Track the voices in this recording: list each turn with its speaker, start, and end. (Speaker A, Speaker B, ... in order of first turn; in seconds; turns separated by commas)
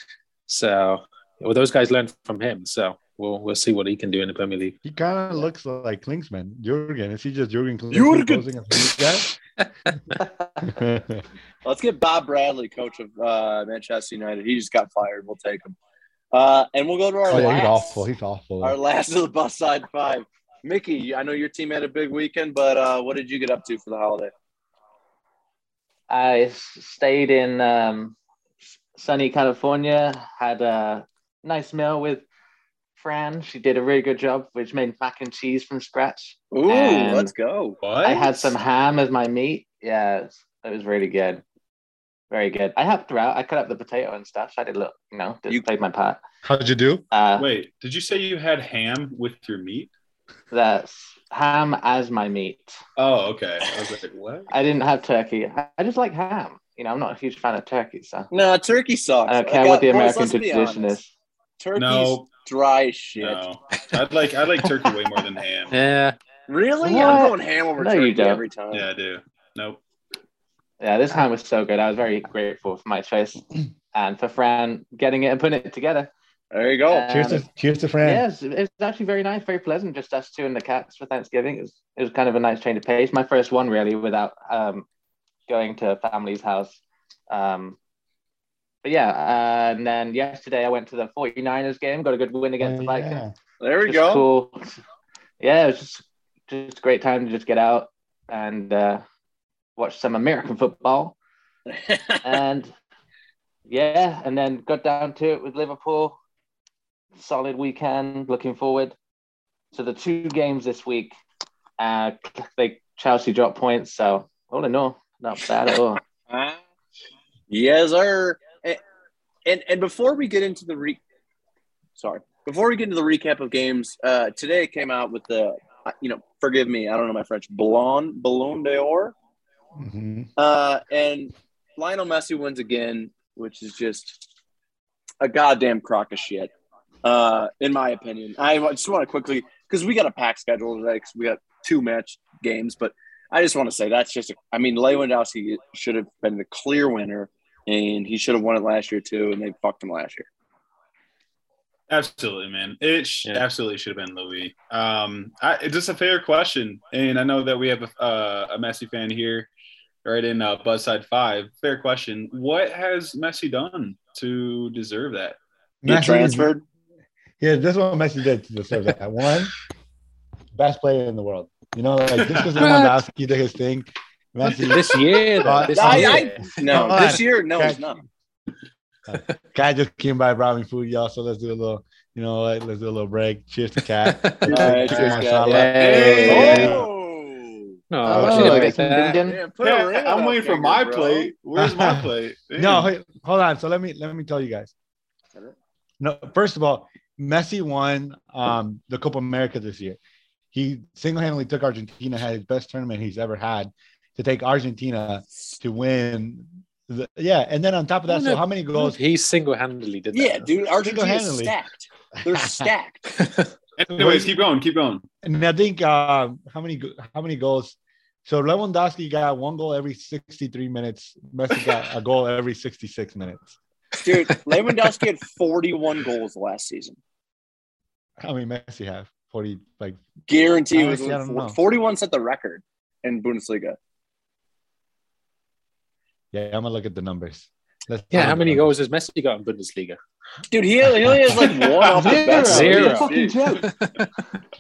Speaker A: 0.5-4.8, Speaker B: 4.8-9.3, Speaker C: 7.9-8.4, Speaker A: 9.6-10.3, Speaker B: 10.6-11.2, Speaker C: 11.7-15.8, Speaker C: 16.3-18.1, Speaker B: 17.3-18.8, Speaker C: 18.6-24.3, Speaker D: 26.1-28.2, Speaker D: 28.9-32.2, Speaker D: 33.0-37.3, Speaker C: 36.5-37.8, Speaker E: 37.8-38.5, Speaker D: 38.0-41.4, Speaker D: 42.3-46.2, Speaker B: 46.4-47.0, Speaker D: 47.1-47.5, Speaker E: 47.4-49.9, Speaker D: 50.5-52.8, Speaker E: 53.0-54.5, Speaker D: 54.5-58.3, Speaker C: 58.3-61.0, Speaker D: 59.3-61.1, Speaker C: 61.6-63.4, Speaker E: 61.8-62.3, Speaker E: 63.2-65.8, Speaker A: 65.7-66.2, Speaker C: 66.5-68.9, Speaker D: 66.8-68.4, Speaker E: 68.7-69.8, Speaker D: 70.8-73.4, Speaker D: 73.9-76.1, Speaker C: 76.5-77.4, Speaker D: 76.9-77.5, Speaker B: 77.1-78.2, Speaker D: 78.0-84.9, Speaker D: 85.5-87.8, Speaker D: 88.8-93.2, Speaker B: 92.6-93.3, Speaker C: 93.6-94.3, Speaker D: 93.9-94.8, Speaker D: 95.4-99.0, Speaker D: 99.8-101.2, Speaker C: 101.7-102.2, Speaker D: 102.2-102.7, Speaker D: 103.7-106.2, Speaker D: 107.2-109.0, Speaker D: 109.7-111.1, Speaker D: 111.8-116.0, Speaker C: 116.3-116.6, Speaker C: 117.5-118.8, Speaker C: 119.5-121.0, Speaker C: 122.0-129.1, Speaker B: 129.8-130.3, Speaker C: 130.4-134.3, Speaker C: 135.2-136.5, Speaker C: 137.0-150.3, Speaker E: 151.9-159.5, Speaker E: 160.0-165.4, Speaker B: 165.8-166.5, Speaker C: 165.9-166.6, Speaker B: 167.4-169.5, Speaker B: 170.5-177.9, Speaker E: 172.2-172.6, Speaker A: 172.6-173.0, Speaker A: 174.4-176.9, Speaker C: 175.7-178.0, Speaker B: 179.1-186.9, Speaker A: 184.0-186.8, Speaker C: 184.5-187.8, Speaker E: 185.8-186.8, Speaker A: 187.9-189.2, Speaker D: 188.0-189.4, Speaker B: 188.1-188.8, Speaker C: 188.7-191.3, Speaker E: 189.6-192.9, Speaker B: 191.6-194.7, Speaker B: 196.0-200.0, Speaker B: 200.5-209.0, Speaker A: 208.1-210.5, Speaker C: 210.1-213.1, Speaker B: 210.8-211.5, Speaker B: 212.3-212.7, Speaker A: 213.2-213.5, Speaker E: 213.8-215.1, Speaker B: 213.9-214.3, Speaker B: 215.2-223.6, Speaker C: 224.0-227.0, Speaker B: 228.2-230.0, Speaker C: 230.3-233.8, Speaker B: 230.7-231.6, Speaker B: 236.3-238.7, Speaker A: 238.1-240.0, Speaker C: 240.5-243.4, Speaker B: 241.0-241.3, Speaker E: 241.3-242.2, Speaker D: 242.0-243.7, Speaker A: 242.2-244.1